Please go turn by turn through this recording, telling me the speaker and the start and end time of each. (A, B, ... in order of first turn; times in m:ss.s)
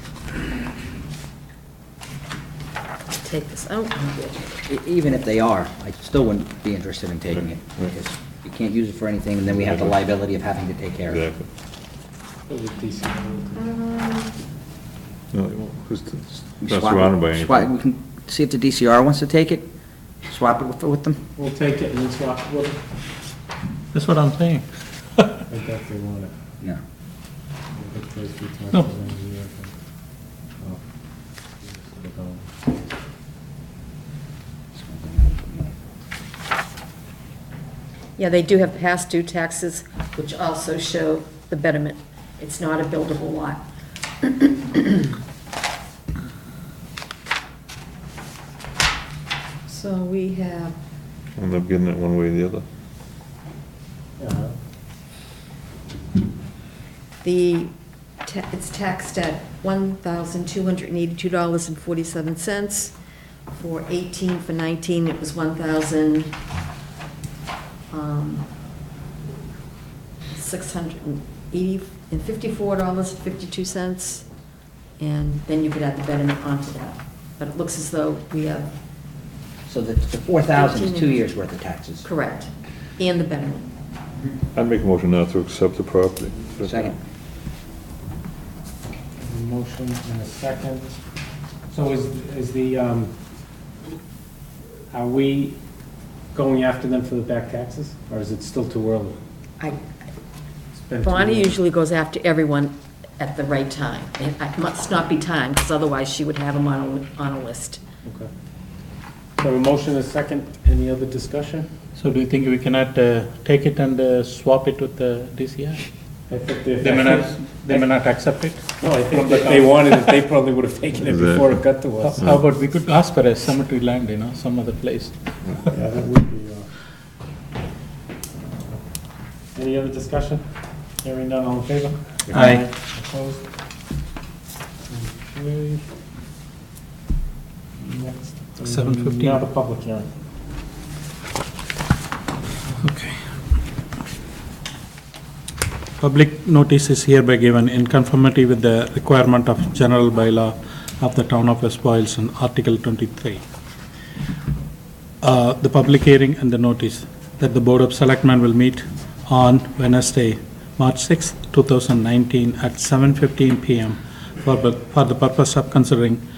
0:03.1-0:04.6 A
0:04.6-0:11.2 B
0:09.5-0:10.0 C
0:11.1-0:11.4 C
0:12.5-0:13.6 D
0:13.6-0:14.4 A
0:15.3-0:17.7 C
0:16.6-0:19.7 B
0:20.3-0:21.2 B
0:21.4-0:22.8 D
0:23.9-0:24.6 E
0:25.2-0:25.4 E
0:25.5-0:26.3 D
0:27.7-0:29.7 D
0:31.6-0:32.5 D
0:34.7-0:35.8 B
0:38.2-0:43.6 A
0:44.2-0:45.1 A
0:49.6-0:50.8 A
0:51.4-0:52.6 C
0:54.2-0:54.5 D
0:57.2-0:57.7 A
0:58.2-1:02.9 A
1:03.5-1:06.4 A
1:07.9-1:08.5 A
1:10.3-1:14.3 A
1:15.0-1:18.7 A
1:19.7-1:22.1 B
1:20.5-1:21.2 A
1:22.0-1:23.7 A
1:24.5-1:26.9 C
1:26.6-1:27.0 B
1:29.2-1:31.0 D
1:31.7-1:33.1 D
1:34.9-1:35.6 D
1:36.3-1:39.2 D
1:40.7-1:41.6 D
1:41.0-1:47.8 A
1:48.0-1:48.3 D
1:49.4-1:51.7 D
1:52.0-1:55.8 E
1:56.3-1:57.9 D
1:56.8-2:00.0 E
1:58.8-2:02.2 D
2:01.0-2:01.6 C
2:02.0-2:05.2 E
2:05.7-2:06.7 D
2:09.5-2:10.5 D
2:11.0-2:13.4 D
2:12.3-2:12.6 E
2:14.9-2:15.9 D
2:17.8-2:20.1 D
2:18.7-2:19.4 E
2:22.8-2:23.3 E
2:26.0-2:33.4 E
2:35.2-2:46.2 E